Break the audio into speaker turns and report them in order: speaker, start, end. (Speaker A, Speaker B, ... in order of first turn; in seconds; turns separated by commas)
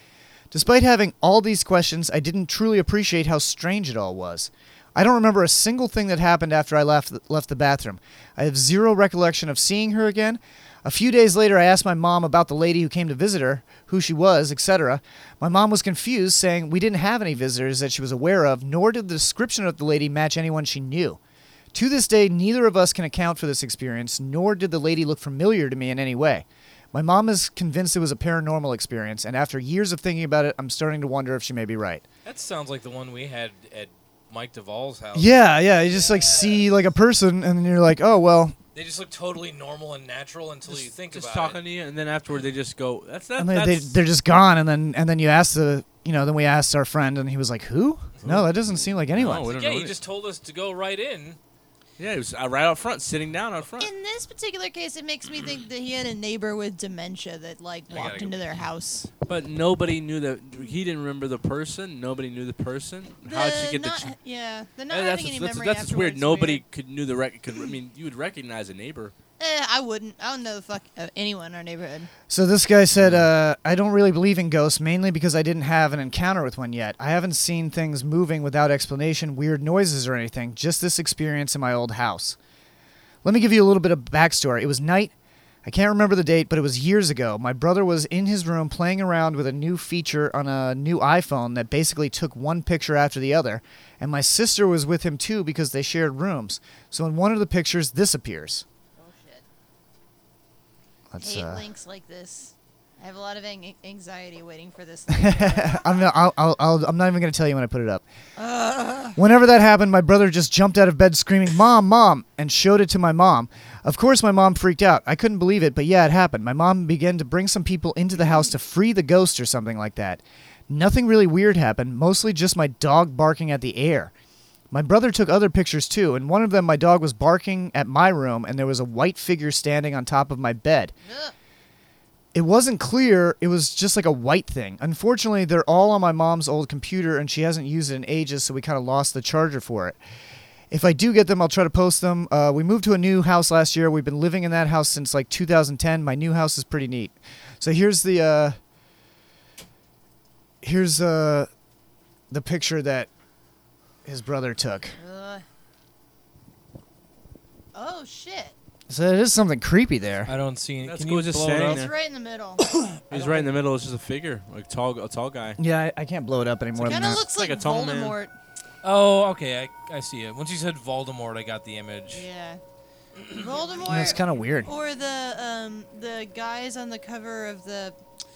Speaker A: 0.5-21.2, Speaker A: 21.7-32.0, Speaker B: 32.2-36.7, Speaker A: 35.1-38.6, Speaker B: 38.8-41.6, Speaker C: 40.7-44.0, Speaker A: 43.4-49.5, Speaker C: 48.2-48.5, Speaker C: 49.1-50.0, Speaker B: 49.4-51.4, Speaker C: 52.0-53.9, Speaker D: 53.8-59.1, Speaker B: 57.9-58.4, Speaker C: 59.2-64.1, Speaker D: 63.2-66.6, Speaker C: 64.9-69.1, Speaker D: 69.4-72.1, Speaker A: 72.3-82.4, Speaker C: 73.0-73.3, Speaker A: 83.2-85.1, Speaker A: 85.7-98.7, Speaker D: 99.0-99.4, Speaker A: 101.1-101.6, Speaker D: 101.2-106.1, Speaker A: 105.1-108.0, Speaker D: 108.4-109.2, Speaker A: 109.2-124.1, Speaker A: 124.7-130.9, Speaker D: 131.1-131.3, Speaker A: 132.3-140.0, Speaker A: 140.7-148.6, Speaker A: 150.6-151.5, Speaker A: 152.3-153.1, Speaker A: 154.1-154.9, Speaker D: 155.0-155.4, Speaker D: 157.8-158.6, Speaker A: 158.9-160.3, Speaker B: 160.3-161.9, Speaker C: 160.8-161.9, Speaker D: 161.7-162.6, Speaker C: 163.1-165.6, Speaker A: 165.6-167.2, Speaker D: 166.8-168.3, Speaker C: 167.2-168.2, Speaker B: 168.8-172.2, Speaker D: 172.1-172.6, Speaker D: 173.3-178.0, Speaker A: 173.9-174.7